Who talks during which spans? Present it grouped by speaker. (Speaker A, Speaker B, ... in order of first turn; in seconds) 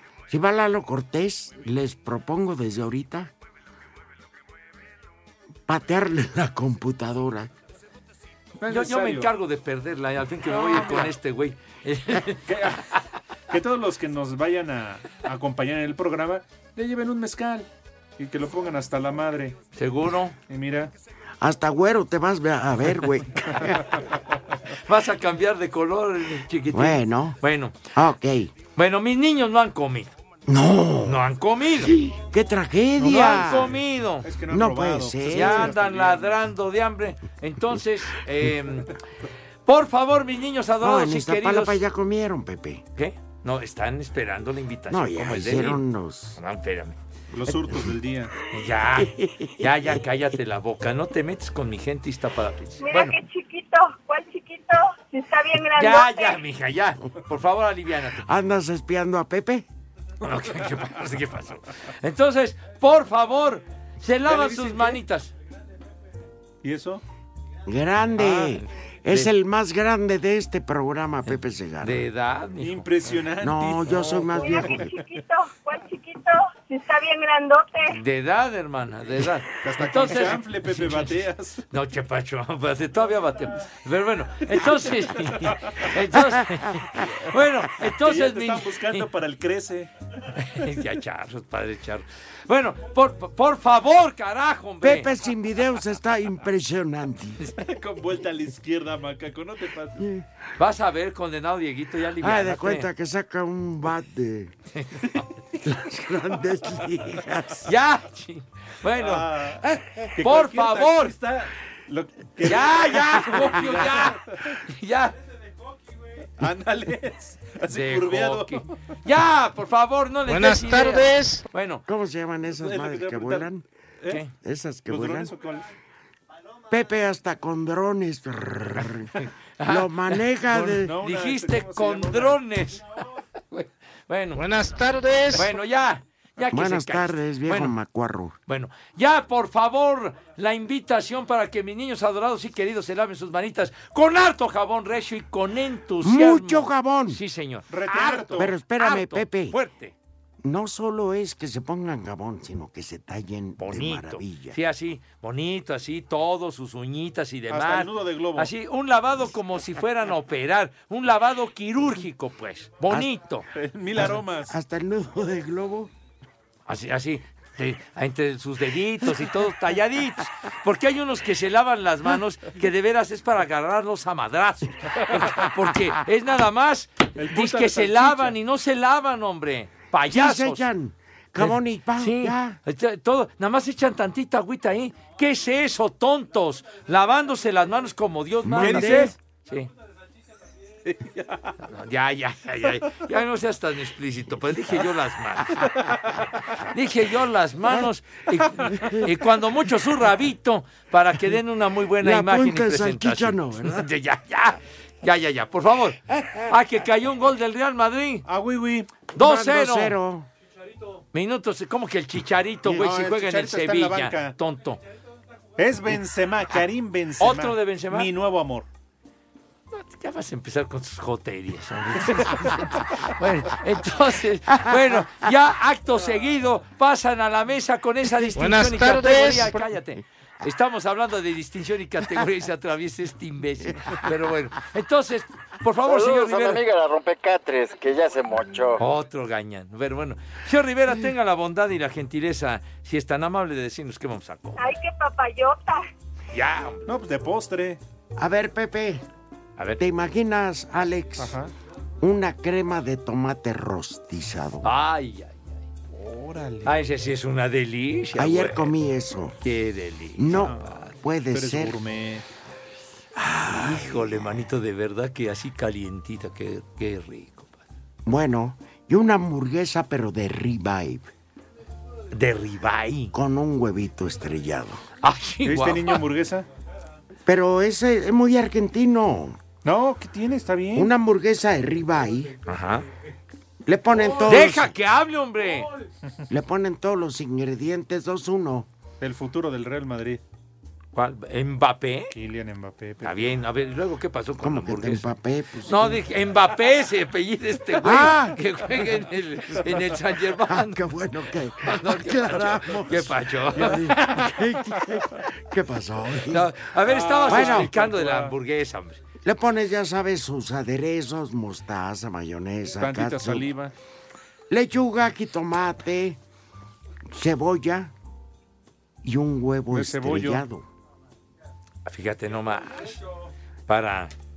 Speaker A: 0.3-3.3, 5.7-7.5, 21.4-23.9, 26.7-27.4, 27.9-28.5, 30.5-31.2, 31.8-33.7, 34.5-35.8, 40.8-42.8, 44.9-46.4, 49.0-49.5, 58.2-59.6, 67.7-72.0, 73.4-74.9, 94.8-97.4, 100.0-100.2, 102.2-104.5, 105.6-107.6, 121.8-123.6, 124.4-125.3, 126.7-129.1, 129.6-130.9, 136.5-138.4, 146.0-147.2, 148.3-149.6, 150.4-154.6, 164.5-165.9, 180.1-182.6, 188.4-189.1, 198.6-199.0, 202.0-203.8, 209.1-210.3, 228.2-228.9, 248.2-249.0, 249.8-251.3, 252.0-254.7, 258.1-259.4, 260.1-261.8, 263.2-264.4, 268.0-271.1, 273.1-274.8, 277.2-279.4, 280.7-282.3, 283.6-284.7, 286.3-288.7, 294.4-296.0, 297.8-298.4, 300.4-306.5, 307.3-307.7, 309.2-313.4, 314.5-316.2, 317.1-317.9, 319.0-320.6
Speaker B: 8.6-9.3, 10.5-11.1, 12.5-12.8, 13.5-17.7, 18.2-19.5, 20.5-20.9, 33.0-33.7, 34.2-36.4, 47.3-48.3, 64.2-65.0, 66.6-67.0, 72.6-75.0, 79.6-81.6, 84.7-85.5, 88.0-89.9, 97.5-100.0, 108.9-109.6, 110.2-114.4, 116.4-118.6, 122.5-123.5, 124.9-125.6, 130.5-132.4, 147.7-148.5, 157.5-158.5, 163.5-164.5, 177.2-178.3, 188.6-189.1, 190.9-191.5, 208.2-209.0, 212.6-214.3, 215.6-218.7, 246.9-247.8, 251.2-251.5, 255.9-256.7, 260.4-260.6, 261.3-262.2, 275.4-276.4, 279.6-280.9, 284.0-284.4, 289.0-290.2, 292.1-293.3, 306.8-308.3, 312.8-313.7, 319.7-320.4
Speaker C: 8.7-12.8, 19.7-20.4, 24.9-27.9, 28.7-30.1, 31.0-32.0, 33.0-34.3, 35.3-38.9, 39.6-41.8, 43.0-45.8, 46.4-47.0, 48.5-53.1, 55.8-58.2, 60.2-65.3, 68.2-69.3, 71.3-72.9, 77.9-81.1, 81.7-89.0, 90.3-95.1, 100.6-102.9, 104.7-105.0, 107.6-109.3, 110.2-111.1, 112.4-115.1, 117.7-121.8, 129.6-132.8, 133.5-134.5, 135.3-137.7, 138.5-149.9, 153.6-163.4, 166.7-180.7, 181.4-189.7, 191.6-208.2, 209.1-210.0, 211.1-214.8, 217.2-218.1, 219.7-236.6, 238.8-244.7, 246.3-246.9, 254.6-255.5, 256.6-258.7, 259.4-260.9, 263.3-267.6, 272.1-273.1, 275.0-276.0, 282.4-282.8, 284.2-285.7, 290.9-292.1, 293.0-295.1, 295.7-300.8, 301.6-304.5, 306.3-309.0, 321.9-323.0, 323.7-324.1
Speaker D: 52.8-56.4, 74.4-78.0, 244.6-245.9
Speaker E: 120.3-121.4, 134.3-135.5, 228.3-229.5
Speaker F: 235.8-238.8